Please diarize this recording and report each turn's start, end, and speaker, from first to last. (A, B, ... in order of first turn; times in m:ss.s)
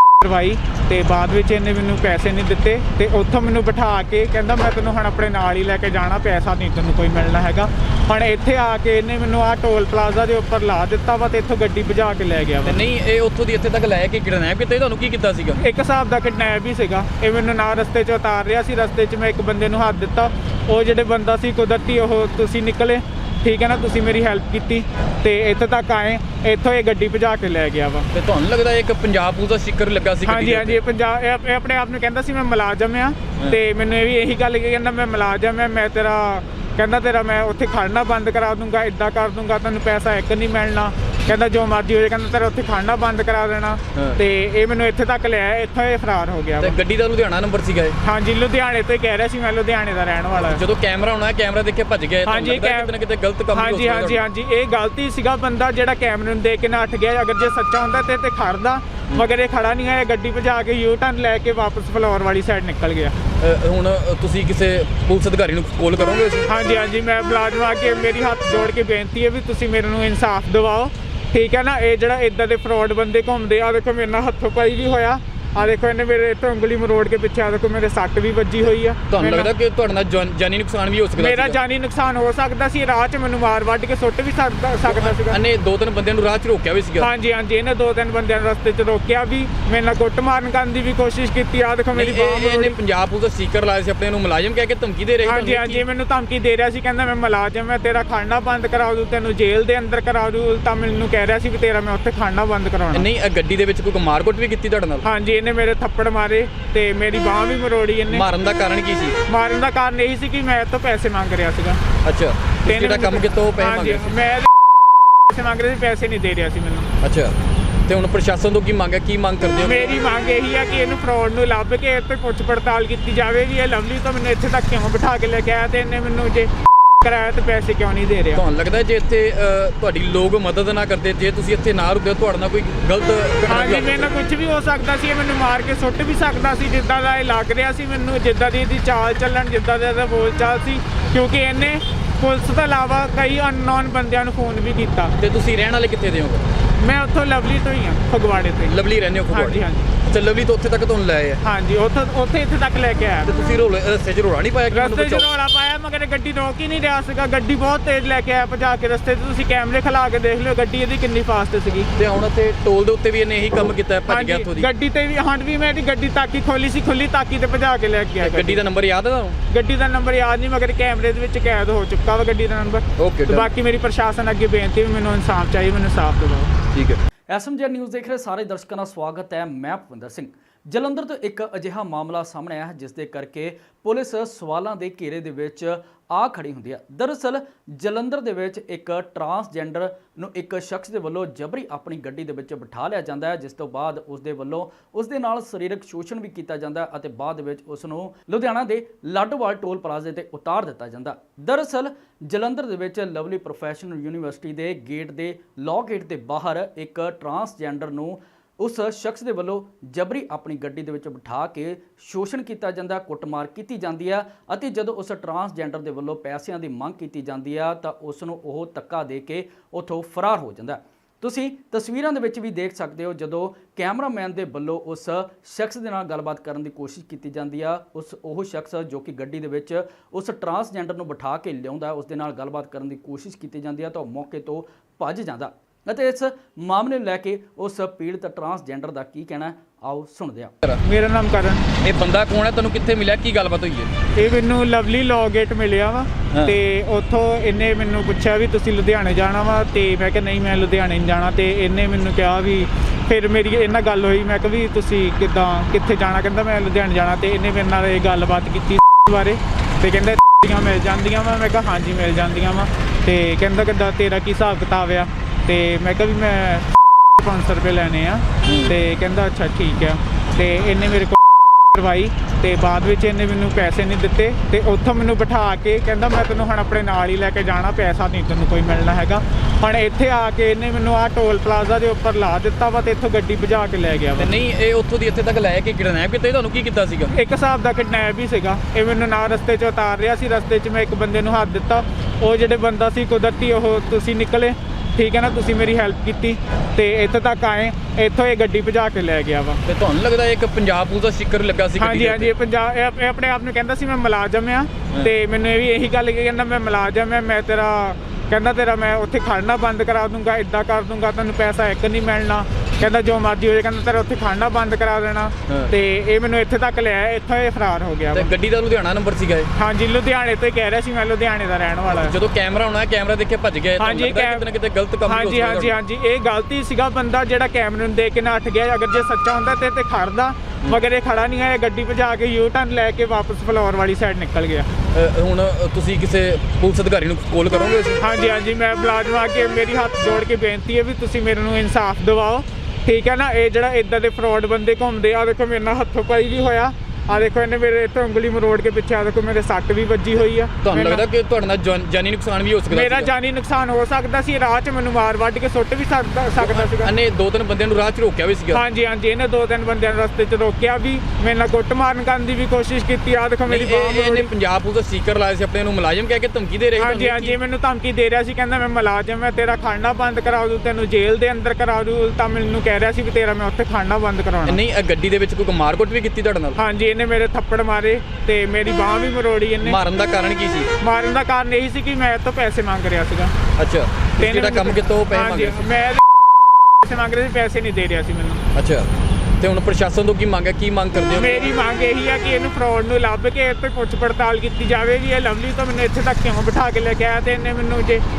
0:00.2-0:12.8 A
0:12.6-0:15.6 B
0:15.6-0:28.1 A
0:28.1-0:30.8 B
0:30.2-0:46.8 A
0:46.6-0:48.0 B
0:48.0-0:50.6 A
0:50.4-0:54.2 B
0:52.2-0:52.9 A
0:53.5-1:03.1 A
1:03.4-1:06.5 B
1:06.5-1:19.5 A
1:19.1-1:21.6 B
1:21.2-1:25.4 A
1:24.8-1:27.1 B
1:27.0-1:32.7 A
1:31.9-1:35.8 B
1:35.2-1:43.0 A
1:42.9-1:45.0 B
1:45.0-1:48.2 A
1:48.1-1:49.2 B
1:49.3-1:51.8 A
1:52.0-1:54.1 B
1:52.6-1:54.5 A
1:55.3-1:56.9 A
1:57.0-2:00.0 B
1:59.6-2:06.5 A
2:07.0-2:08.4 A
2:08.3-2:14.1 B
2:13.5-2:25.1 A
2:25.2-2:26.4 B
2:26.8-2:28.7 A
2:28.6-2:31.4 B
2:29.3-2:29.9 A
2:31.4-2:33.3 A
2:33.3-2:35.3 B
2:34.7-2:41.9 A
2:42.0-2:44.7 B
2:44.1-2:48.6 A
2:48.2-2:49.4 B
2:49.5-2:56.5 A
2:53.0-2:53.5 B
2:57.3-4:00.5 C
4:00.8-4:01.6 A
4:01.8-4:03.9 B
4:04.1-4:31.2 A
4:28.4-4:28.7 B
4:31.7-4:44.3 A
4:44.2-4:47.1 B
4:47.1-4:59.6 A
4:59.6-5:02.3 B
5:01.8-5:18.3 A
5:15.5-5:15.7 B
5:18.1-5:19.5 B
5:19.6-5:22.1 A
5:22.0-5:25.8 B
5:23.8-5:24.4 A
5:25.0-5:34.7 A
5:34.9-5:38.0 B
5:38.0-5:51.0 A
5:50.6-5:53.1 B
5:52.7-5:56.9 A
5:56.4-5:58.6 B
5:58.5-6:04.3 A
6:03.5-6:07.4 B
6:06.8-6:14.6 A
6:14.5-6:16.6 B
6:16.6-6:19.8 A
6:19.6-6:20.7 B
6:20.8-6:23.3 A
6:23.6-6:25.7 B
6:24.2-6:26.0 A
6:26.8-6:28.4 A
6:28.5-6:28.9 B
6:29.4-6:31.5 B
6:31.2-6:38.0 A